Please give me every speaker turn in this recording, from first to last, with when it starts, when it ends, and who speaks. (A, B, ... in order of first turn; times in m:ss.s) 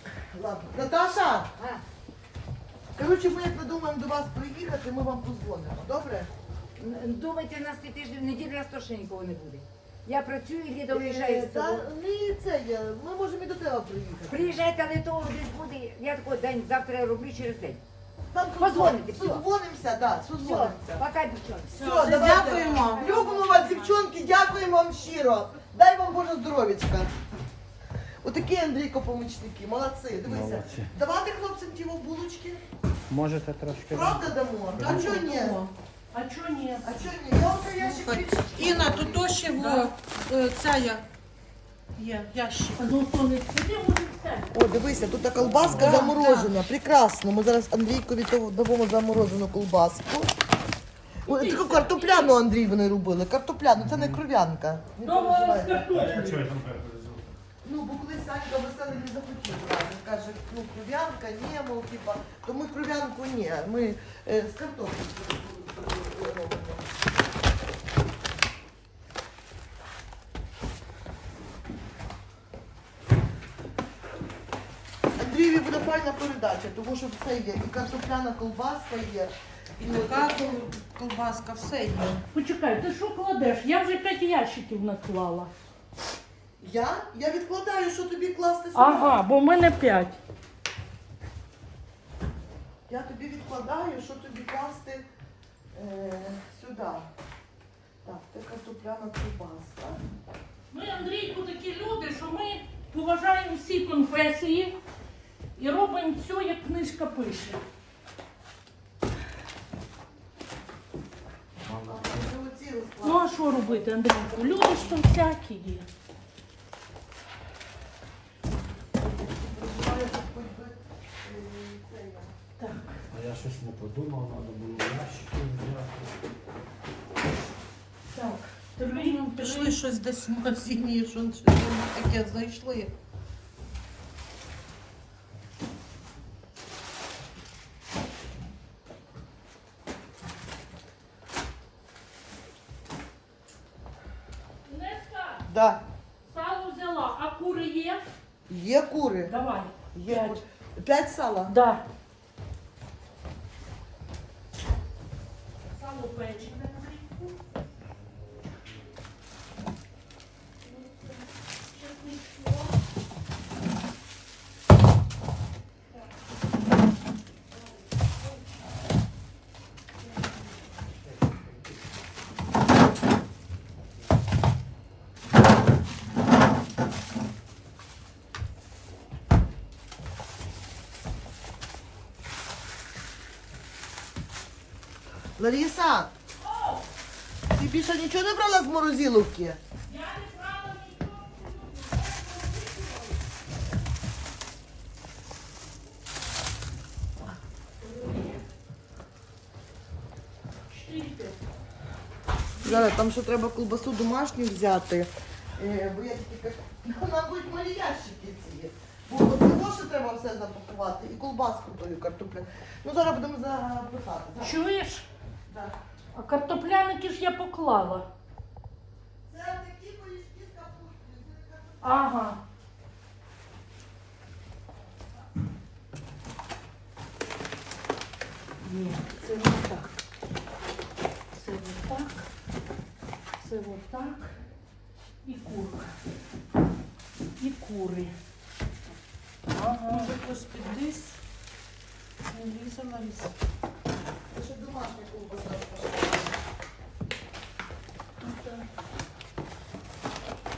0:00.3-0:01.5 A
0:01.6-0:01.8 B
0:03.0-0:06.3 A
0:06.8-0:11.9 B
0:10.9-0:14.6 A
0:14.3-0:17.8 B
0:18.3-0:21.0 A
0:18.6-0:19.5 B
0:20.3-0:24.1 B
0:21.7-0:23.6 C
0:21.8-0:27.1 A
0:28.2-0:32.6 A
0:30.2-0:30.9 D
0:33.1-0:35.1 D
0:33.9-0:35.6 A
0:34.8-0:35.7 C
0:36.1-0:37.0 E
0:36.8-0:39.4 A
0:37.8-0:41.0 C
0:39.6-0:39.9 E
0:42.0-0:42.9 C
0:42.8-0:44.6 E
0:44.5-0:50.3 A
0:45.4-0:46.0 D
0:45.7-0:46.5 C
0:45.8-0:46.1 E
0:51.2-0:52.4 E
0:51.3-0:55.9 A
0:53.8-0:54.2 D
0:55.0-0:56.4 E
0:55.9-0:57.3 D
0:57.6-1:06.9 A
1:15.2-1:20.5 A
1:19.8-1:22.2 C
1:22.3-1:25.5 E
1:26.6-1:29.2 A
1:28.8-1:30.2 E
1:32.9-1:35.1 A
1:35.7-1:37.1 A
1:38.0-1:40.0 A
1:40.7-1:44.8 E
1:45.6-1:47.6 E
1:51.6-1:52.2 D
1:51.7-1:53.9 A
1:53.0-1:55.9 E
1:59.0-2:02.3 A
2:02.6-2:03.0 E
2:03.1-2:06.2 D
2:08.1-2:09.8 E
2:08.8-2:12.9 C
2:24.6-2:25.5 E
2:25.5-2:25.8 A
2:26.2-2:28.0 E
2:28.5-2:29.4 A
2:29.2-2:30.4 E
2:29.9-2:31.6 A
2:31.5-2:31.9 E
2:35.7-2:37.3 E
2:41.7-2:42.7 E
3:05.4-3:06.1 A
3:06.4-3:06.9 E
3:07.5-3:09.6 A
3:09.9-3:13.2 E
3:17.8-3:18.4 E
3:20.7-3:21.4 E
3:22.6-3:22.9 E
3:22.6-3:34.6 A
3:34.4-3:35.1 E
3:35.5-3:35.8 A
3:36.1-3:38.1 E
3:39.3-3:42.1 A
3:41.8-3:42.4 E
3:48.6-3:50.0 E
3:51.3-3:52.3 E
3:53.4-3:54.4 E
3:55.2-3:56.0 E
3:57.4-3:58.2 E
3:59.6-4:00.1 E
3:59.6-4:01.2 C
4:02.3-4:03.3 C
4:04.3-4:06.3 A
4:08.2-4:08.7 E